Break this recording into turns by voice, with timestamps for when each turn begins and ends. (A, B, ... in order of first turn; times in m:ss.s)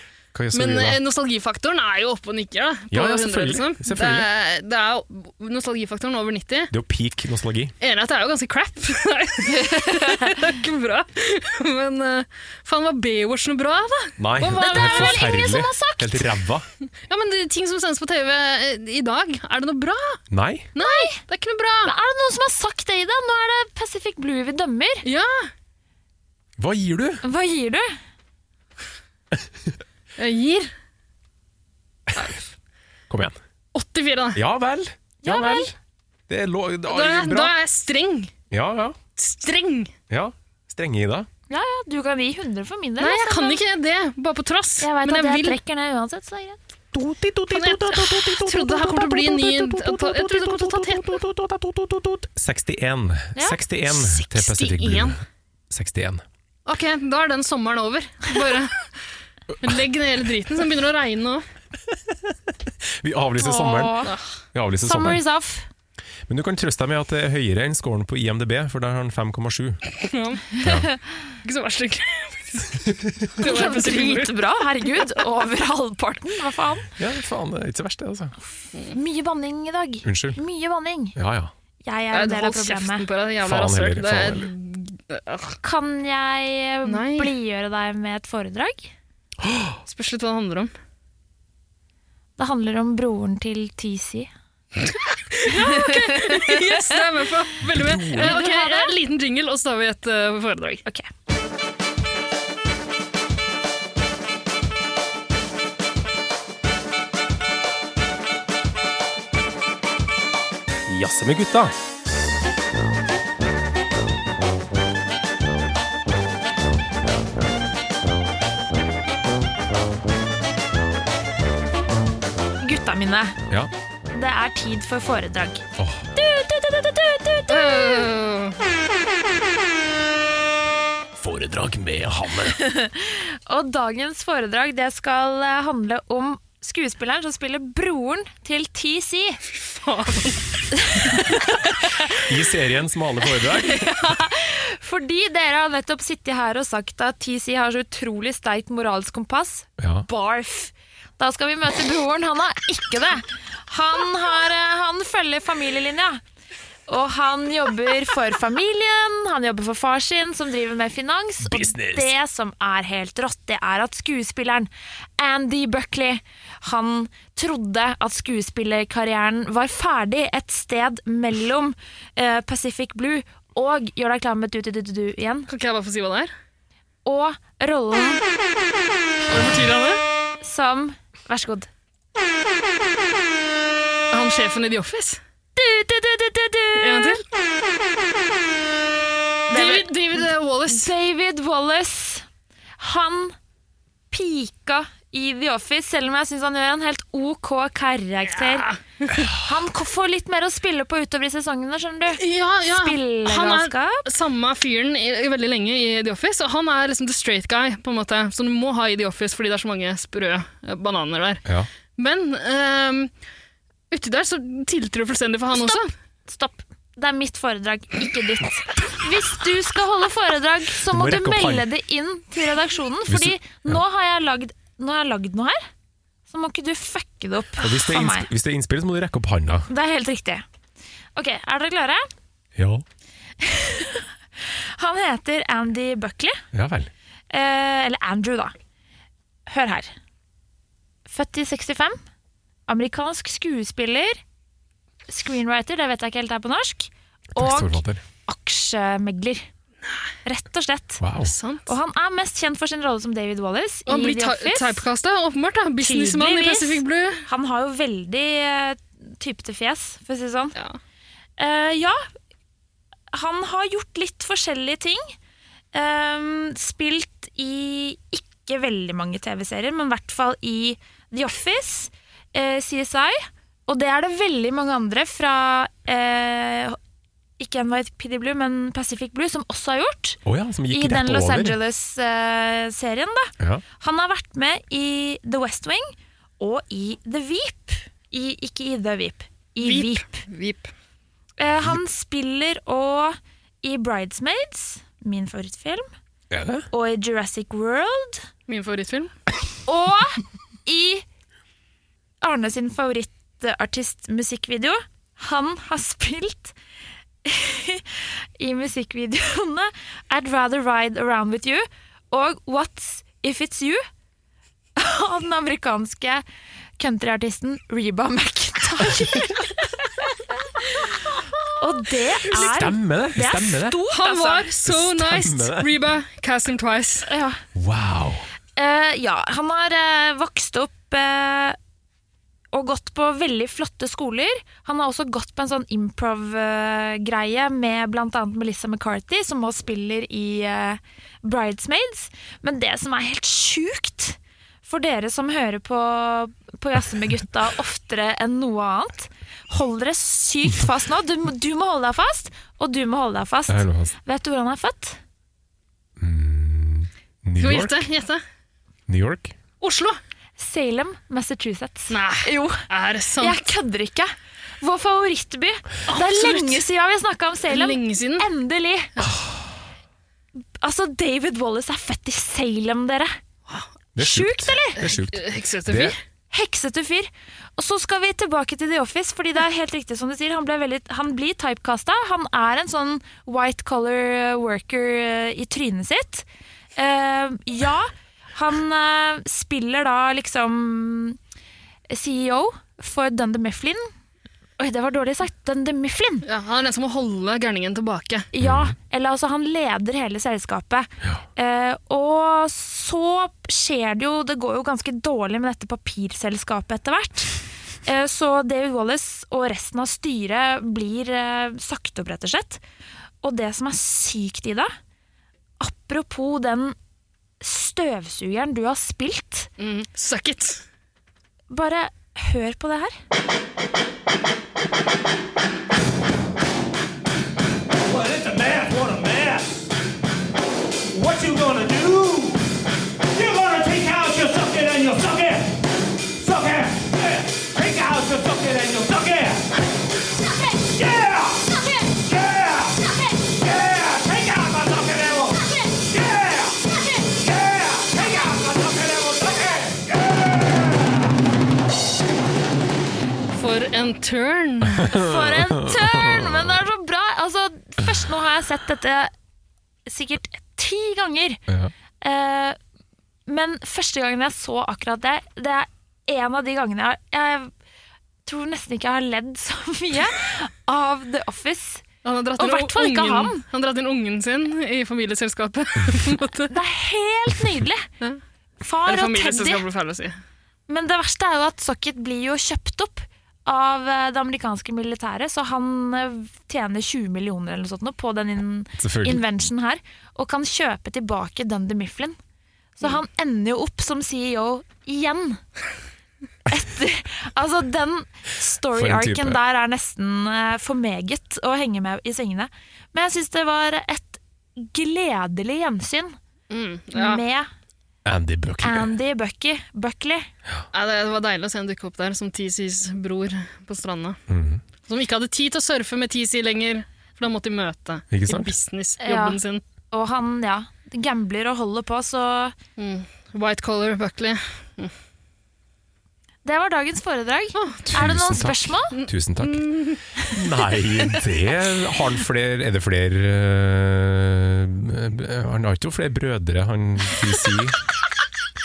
0:00.3-0:01.0 A
0:00.5-0:06.7 B
0:02.9-0:04.3 A
0:06.7-0:07.7 A
0:07.8-0:15.2 B
0:14.2-0:16.7 A
0:14.4-0:16.3 C
0:17.1-0:20.2 B
0:20.3-0:20.7 A
0:20.8-0:21.9 B
0:20.8-0:21.2 C
0:21.8-0:25.0 C
0:25.0-0:25.5 B
0:26.6-0:27.2 A
0:27.2-0:27.9 C
0:30.2-0:30.7 B
0:33.1-0:33.4 A
0:33.7-0:34.4 B
0:34.4-0:35.7 A
0:35.2-0:35.7 C
0:36.3-0:37.5 A
0:36.9-0:38.3 B
0:38.5-0:39.0 A
0:39.2-0:39.9 B
0:40.1-0:41.3 A
0:41.5-0:43.6 C
0:43.0-0:45.6 B
0:44.8-0:46.6 C
0:46.9-0:56.2 A
0:47.5-0:51.2 B
0:53.9-0:55.2 B
0:56.7-0:58.9 B
0:59.6-1:01.4 B
1:01.9-1:04.0 A
1:03.4-1:04.1 C
1:04.5-1:05.2 A
1:04.8-1:05.7 C
1:06.3-1:09.8 A
1:10.0-1:10.6 B
1:10.6-1:10.9 A
1:10.6-1:10.9 C
1:11.4-1:15.1 B
1:13.4-1:16.9 C
1:17.0-1:18.4 A
1:18.9-1:21.2 C
1:20.0-1:20.4 A
1:21.2-1:21.5 A
1:21.8-1:23.0 C
1:22.1-1:25.6 B
1:23.4-1:24.5 A
1:25.6-1:28.9 C
1:26.8-1:27.3 B
1:29.4-1:29.8 A
1:29.9-1:30.7 B
1:32.4-1:34.3 C
1:34.9-1:40.8 B
1:35.5-1:36.7 C
1:37.7-1:38.4 A
1:38.1-1:38.9 C
1:50.9-1:51.8 A
2:02.6-2:03.4 C
2:04.1-2:05.6 C
2:05.8-2:06.0 A
2:06.2-2:08.1 C
2:07.5-2:08.6 B
2:11.2-2:12.6 A
2:12.6-2:19.4 C
2:19.5-2:20.6 B
2:20.8-2:21.6 C
2:22.2-2:24.0 A
2:23.6-2:36.2 C
2:29.8-2:30.1 A
2:36.9-2:55.5 C
2:41.4-2:42.1 A
2:55.5-2:56.3 B
2:57.0-2:58.2 C
2:59.3-3:00.0 B
3:00.4-3:01.7 C
3:04.1-3:05.2 B
3:05.6-3:07.2 C
3:06.8-3:07.2 B
3:09.5-3:12.2 C
3:09.5-3:10.9 B
3:12.8-3:13.4 C
3:14.1-3:18.7 C
3:18.3-3:19.3 B
3:19.3-3:24.0 C
3:22.2-3:31.4 B
3:32.0-3:33.1 B
3:33.9-3:35.9 B
3:35.5-3:45.6 C
3:40.8-3:41.7 A
3:43.1-3:43.8 A
3:46.3-3:48.3 C
3:47.6-3:49.7 A
3:49.7-3:50.4 C
3:51.2-3:52.1 C
3:52.6-3:52.8 A
3:53.4-3:54.1 C
3:54.8-3:56.4 C
3:56.5-3:56.9 A
3:57.3-3:58.5 C
3:59.5-3:59.9 C
4:01.1-4:02.0 C
4:02.7-4:04.2 C
4:05.1-4:09.5 C
4:07.4-4:08.0 A
4:10.2-4:11.0 C
4:11.0-4:11.3 A
4:11.2-4:11.7 B
4:11.7-4:14.8 C
4:13.9-4:17.3 B
4:15.8-4:20.6 C
4:21.4-4:22.0 C
4:23.1-4:25.2 C
4:25.7-4:36.8 C
4:37.4-4:40.2 C
4:40.2-4:41.6 A
4:40.7-4:50.2 C
4:49.6-4:50.7 B
4:51.4-4:55.9 C
4:56.3-4:56.7 A
4:56.7-4:58.2 C
4:58.5-4:59.1 B
4:59.7-5:01.0 C
5:02.2-5:06.6 C
5:07.2-5:07.9 C
5:08.4-5:13.8 C
5:14.8-5:16.2 C
5:16.8-5:19.7 C
5:20.7-5:21.0 C
5:21.6-5:24.5 C
5:22.3-5:23.8 A
5:23.9-5:27.1 B
5:24.6-5:25.7 A
5:27.1-5:27.4 C
5:27.6-5:28.3 A
5:28.6-5:31.6 C
5:32.5-5:55.0 C
5:53.5-5:53.9 A
5:56.0-5:57.9 A
5:57.4-5:58.2 B
5:58.9-5:59.4 A
5:59.6-6:00.0 B
6:00.4-6:02.6 C
6:01.9-6:03.5 B
6:03.2-6:08.9 C
6:05.9-6:06.6 B
6:07.5-6:08.3 B
6:09.0-6:09.5 A
6:10.6-6:13.2 C
6:14.0-6:16.0 A
6:14.0-6:14.8 C
6:14.8-6:16.0 B
6:16.3-6:31.2 C
6:31.9-6:33.9 C
6:34.6-6:36.3 C
6:36.2-6:38.3 B
6:38.3-6:47.3 C
6:38.4-6:38.7 A
6:47.8-6:52.6 C
6:53.2-6:54.7 C
6:55.6-6:56.8 C
6:57.4-6:59.5 C
6:59.6-7:00.6 B
7:01.5-7:03.0 C
7:07.9-7:09.7 D
7:10.9-7:12.4 D
7:13.1-7:15.6 D
7:16.2-7:19.5 D
7:20.7-7:31.0 D
7:33.4-7:34.9 B
7:34.8-7:36.6 A
7:34.9-7:39.1 C
7:39.9-7:41.4 C
7:42.0-7:42.6 C
7:43.3-7:47.5 C
7:48.3-7:51.8 C
7:52.0-7:56.5 B
7:52.4-7:53.4 C
7:56.5-7:57.9 C
7:58.6-7:59.6 C
7:58.8-8:00.2 B
8:00.7-8:12.2 C
8:08.8-8:09.3 A
8:12.8-8:15.4 C
8:16.5-8:26.2 C
8:18.7-8:19.4 A
8:26.5-8:27.2 B
8:26.9-8:27.5 C
8:28.0-8:28.9 A
8:28.6-8:30.3 C
8:30.7-8:34.2 B
8:34.3-8:34.6 A
8:34.9-8:39.6 B
8:38.1-8:38.5 A
8:39.0-8:39.4 C
8:39.9-8:42.6 C
8:42.8-8:44.9 B
8:46.4-8:49.0 C
8:47.6-8:47.8 B
8:47.9-8:49.7 A
8:49.0-8:50.0 B
8:50.4-8:57.8 A